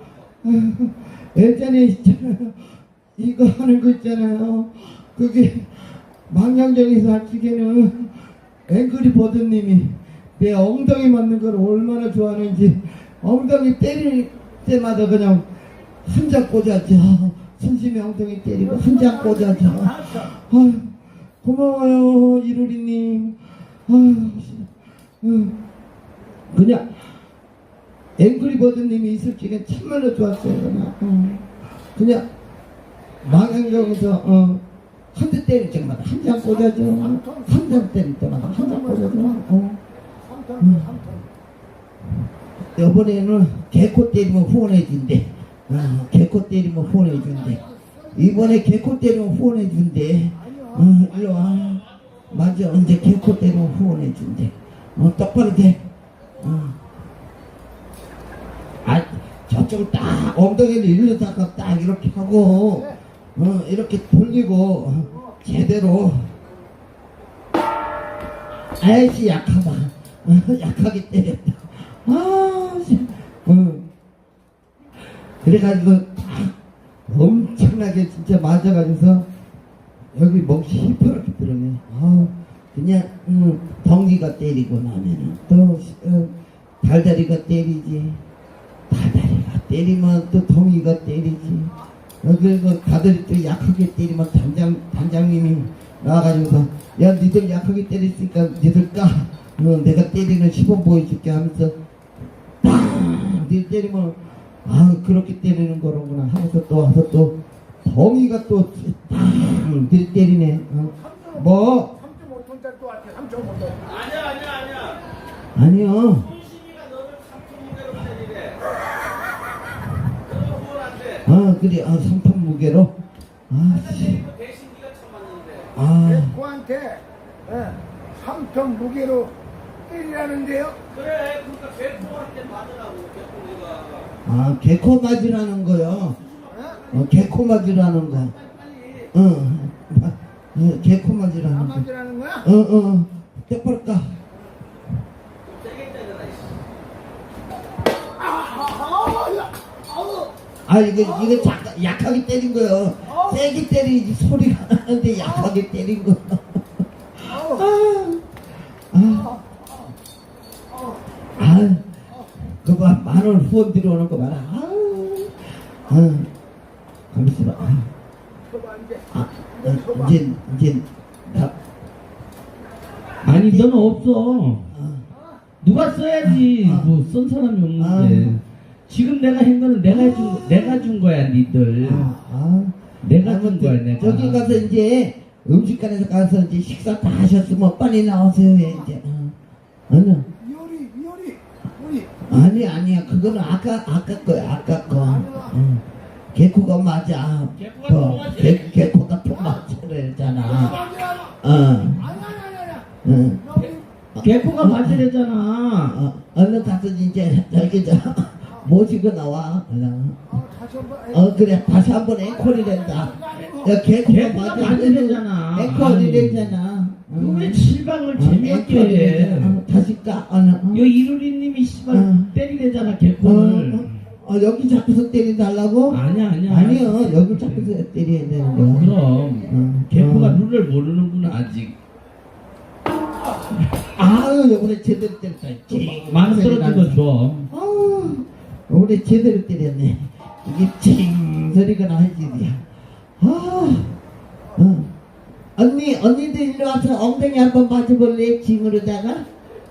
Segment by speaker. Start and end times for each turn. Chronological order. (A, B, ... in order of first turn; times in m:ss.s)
0:00.4-0:15.5 A
0:16.1-0:24.7 A
0:25.2-0:25.6 A
0:26.5-0:27.2 A
0:28.2-0:32.2 A
0:33.2-0:34.6 A
0:35.1-0:39.8 A
0:40.6-0:41.2 A
0:42.8-0:47.6 A
0:48.1-0:55.8 A
0:56.4-0:56.8 A
0:58.8-1:06.3 A
1:08.8-1:13.9 A
1:15.4-1:16.5 A
1:17.1-1:19.3 A
1:20.1-1:28.2 A
1:28.9-1:41.7 A
1:42.6-1:52.0 A
1:52.5-1:53.7 B
1:53.8-1:55.0 C
1:55.6-1:56.3 A
1:56.3-1:58.6 C
2:00.3-2:01.2 C
2:01.2-2:02.9 A
2:03.5-2:04.3 A
2:03.9-2:05.7 C
2:05.8-2:06.5 A
2:06.6-2:07.0 B
2:08.2-2:09.3 B
2:09.9-2:10.8 B
2:10.8-2:14.1 C
2:14.2-2:16.2 A
2:16.3-2:17.1 C
2:16.9-2:18.4 A
2:19.1-2:24.2 A
2:25.5-2:26.5 C
2:30.7-2:38.2 A
2:38.9-2:39.4 A
2:41.4-2:41.8 A
2:42.4-2:46.3 A
2:47.1-2:47.9 A
2:49.1-2:51.5 A
2:53.2-2:54.7 C
2:53.3-2:53.7 A
2:54.7-2:55.0 A
2:55.6-3:02.1 C
2:56.2-2:56.9 A
2:57.8-2:58.4 A
2:59.9-3:01.0 A
3:01.8-3:09.4 A
3:03.0-3:04.7 C
3:09.9-3:10.3 A
3:10.6-3:11.4 B
3:12.3-3:15.8 A
3:16.3-3:22.3 A
3:17.6-3:18.8 C
3:22.4-3:22.8 B
3:23.0-3:25.0 A
3:24.2-3:26.0 C
3:25.9-3:30.4 A
3:31.1-3:40.8 A
3:34.1-3:36.6 C
3:37.2-3:39.6 C
3:40.7-3:44.0 C
3:41.9-3:42.3 A
3:43.2-3:49.0 A
3:45.9-3:47.7 C
3:48.6-3:51.8 C
3:49.5-3:50.4 A
3:54.0-4:02.6 A
3:55.7-3:57.5 C
4:03.2-4:03.9 A
4:04.6-4:04.9 A
4:05.6-4:09.3 A